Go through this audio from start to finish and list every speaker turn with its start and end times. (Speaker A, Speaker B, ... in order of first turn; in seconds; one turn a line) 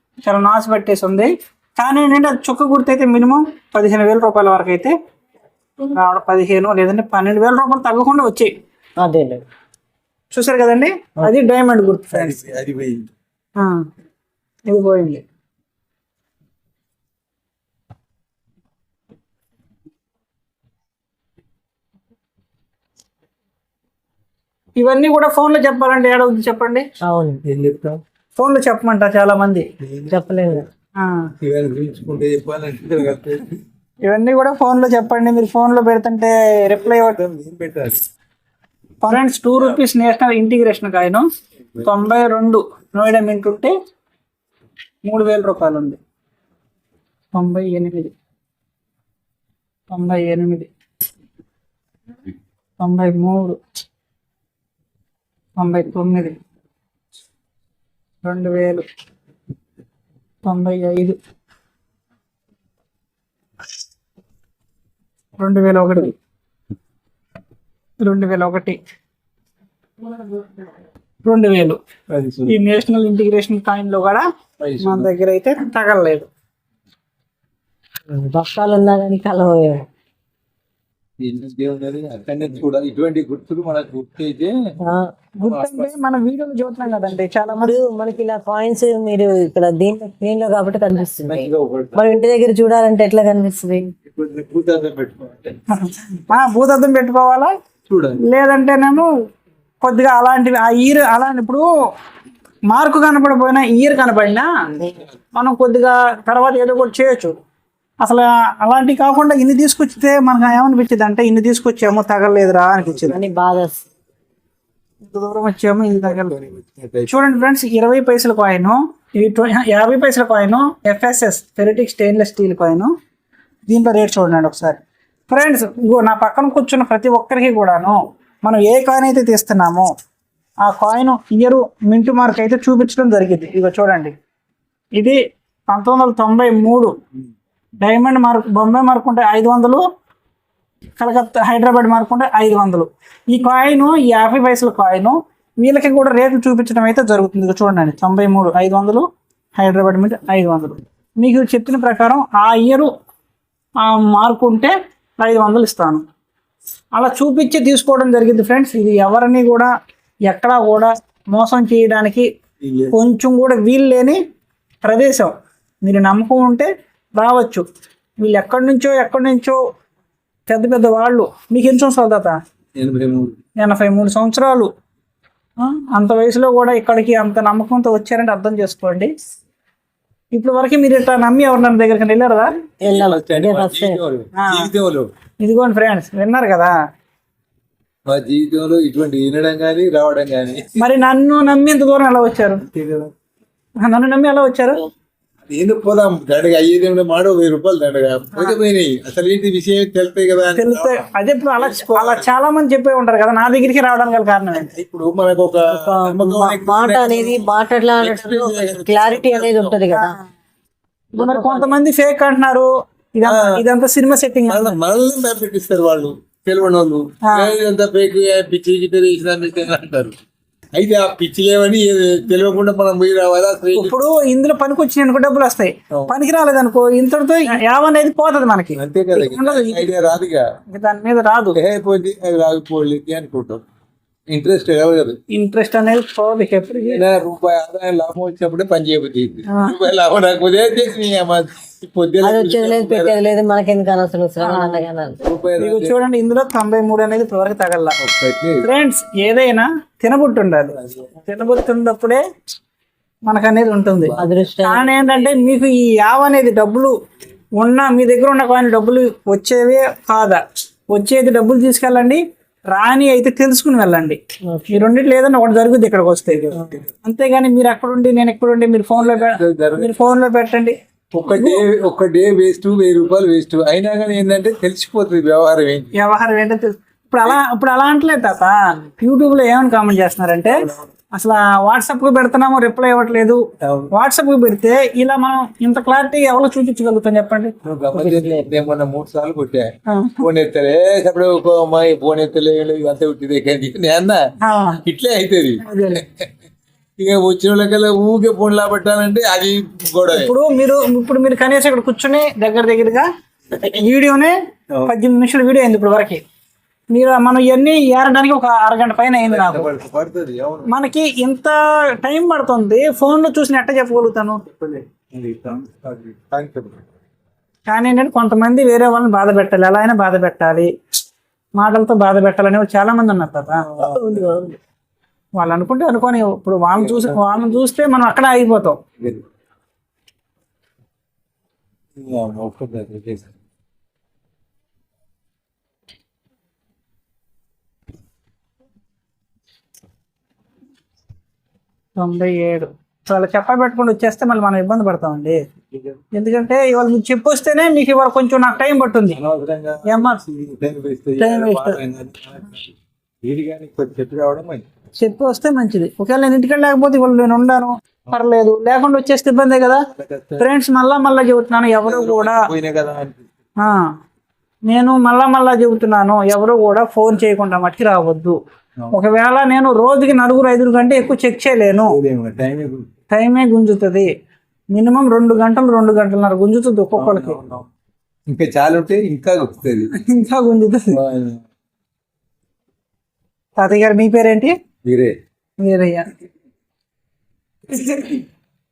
Speaker A: 0.2-5.0
Speaker A: 5.9-8.5
Speaker B: 9.0-9.4
Speaker A: 10.3-12.4
Speaker C: 12.1-13.1
Speaker A: 13.6-13.9
Speaker A: 14.7-15.2
Speaker A: 24.8-26.9
Speaker B: 27.0-27.4
Speaker C: 27.4-28.0
Speaker A: 28.4-29.7
Speaker C: 29.8-30.6
Speaker B: 30.1-30.7
Speaker A: 31.0-31.3
Speaker C: 31.4-33.6
Speaker A: 34.1-37.2
Speaker C: 36.8-38.0
Speaker A: 39.0-41.3
Speaker A: 41.8-43.7
Speaker A: 45.0-46.0
Speaker A: 47.3-48.1
Speaker A: 49.9-50.7
Speaker A: 52.8-53.6
Speaker A: 55.6-56.4
Speaker A: 58.2-58.9
Speaker A: 60.4-61.2
Speaker A: 65.4-66.2
Speaker A: 68.0-68.8
Speaker A: 71.2-71.8
Speaker C: 72.1-72.5
Speaker A: 72.5-74.3
Speaker C: 74.6-75.1
Speaker A: 74.8-76.3
Speaker B: 78.1-79.9
Speaker C: 81.2-84.8
Speaker B: 84.8-85.1
Speaker A: 85.4-87.8
Speaker C: 85.4-85.9
Speaker B: 87.6-93.9
Speaker C: 91.3-92.0
Speaker C: 94.1-95.6
Speaker A: 95.7-97.5
Speaker C: 97.9-98.2
Speaker A: 98.2-99.1
Speaker A: 99.8-101.7
Speaker A: 102.7-104.5
Speaker A: 105.3-107.4
Speaker A: 108.0-113.2
Speaker B: 113.1-113.8
Speaker A: 115.1-116.4
Speaker C: 116.1-117.1
Speaker A: 117.1-122.9
Speaker A: 123.7-129.9
Speaker A: 130.6-134.2
Speaker A: 135.0-136.9
Speaker A: 137.8-139.8
Speaker A: 141.0-152.9
Speaker A: 153.8-156.0
Speaker A: 156.9-159.7
Speaker A: 160.3-162.3
Speaker C: 162.6-162.9
Speaker A: 162.9-164.2
Speaker A: 164.8-167.7
Speaker A: 168.2-169.6
Speaker A: 170.5-172.4
Speaker C: 172.8-173.4
Speaker A: 173.6-174.7
Speaker A: 175.6-179.1
Speaker A: 180.3-182.6
Speaker B: 182.8-184.0
Speaker C: 182.8-185.1
Speaker A: 184.4-184.7
Speaker A: 185.4-186.8
Speaker C: 188.1-190.8
Speaker A: 190.8-192.7
Speaker C: 192.7-193.1
Speaker A: 193.8-194.8
Speaker C: 195.5-201.1
Speaker A: 200.6-204.7
Speaker C: 201.6-202.3
Speaker C: 204.6-207.5
Speaker B: 205.7-210.2
Speaker C: 208.0-209.8
Speaker A: 211.2-214.8
Speaker B: 211.2-211.7
Speaker C: 213.2-213.6
Speaker C: 214.5-220.2
Speaker A: 217.2-217.6
Speaker C: 220.8-223.9
Speaker A: 223.8-229.9
Speaker C: 228.8-230.5
Speaker A: 230.7-231.6
Speaker C: 231.6-233.6
Speaker C: 234.3-235.2
Speaker A: 235.3-237.0
Speaker C: 236.8-243.1
Speaker A: 239.5-239.8
Speaker B: 242.2-245.3
Speaker A: 244.4-244.8
Speaker C: 245.2-246.0
Speaker A: 245.6-248.0
Speaker C: 248.0-248.7
Speaker A: 248.6-252.2
Speaker C: 250.7-251.1
Speaker A: 253.3-256.9
Speaker C: 254.0-254.4
Speaker B: 254.2-255.4
Speaker A: 257.6-270.8
Speaker B: 264.4-264.9
Speaker C: 266.5-266.8
Speaker C: 269.0-269.9
Speaker C: 271.1-275.9
Speaker A: 271.3-271.6
Speaker A: 275.9-287.6
Speaker C: 280.5-280.9
Speaker C: 283.6-283.9
Speaker C: 287.6-294.3
Speaker B: 287.9-288.5
Speaker A: 289.9-290.3
Speaker A: 294.4-294.8
Speaker C: 294.9-296.3
Speaker A: 295.7-296.0
Speaker C: 297.0-300.3
Speaker A: 300.1-304.3
Speaker A: 304.9-306.2
Speaker A: 306.9-309.7
Speaker C: 309.2-310.7
Speaker A: 310.7-314.8
Speaker C: 315.1-316.8
Speaker A: 317.7-321.0
Speaker A: 321.6-323.7
Speaker C: 323.7-324.4
Speaker B: 323.8-324.6
Speaker A: 325.4-328.8
Speaker C: 326.7-327.5
Speaker C: 329.0-329.3
Speaker C: 332.0-333.3
Speaker A: 342.0-345.4
Speaker C: 345.7-346.0
Speaker A: 346.1-349.2
Speaker C: 349.1-354.7
Speaker A: 349.9-350.2
Speaker A: 351.2-351.8
Speaker A: 355.0-359.9
Speaker C: 359.9-360.5
Speaker A: 360.4-362.5
Speaker C: 361.8-363.3
Speaker A: 363.6-363.9
Speaker A: 364.7-368.4
Speaker A: 368.9-372.0
Speaker C: 371.9-372.9
Speaker A: 373.1-374.1
Speaker A: 374.7-377.4
Speaker C: 377.0-377.7
Speaker C: 378.3-379.9
Speaker A: 379.9-381.0
Speaker C: 380.9-381.4
Speaker A: 383.6-384.6
Speaker C: 384.8-385.2
Speaker A: 385.6-386.1
Speaker A: 387.7-388.2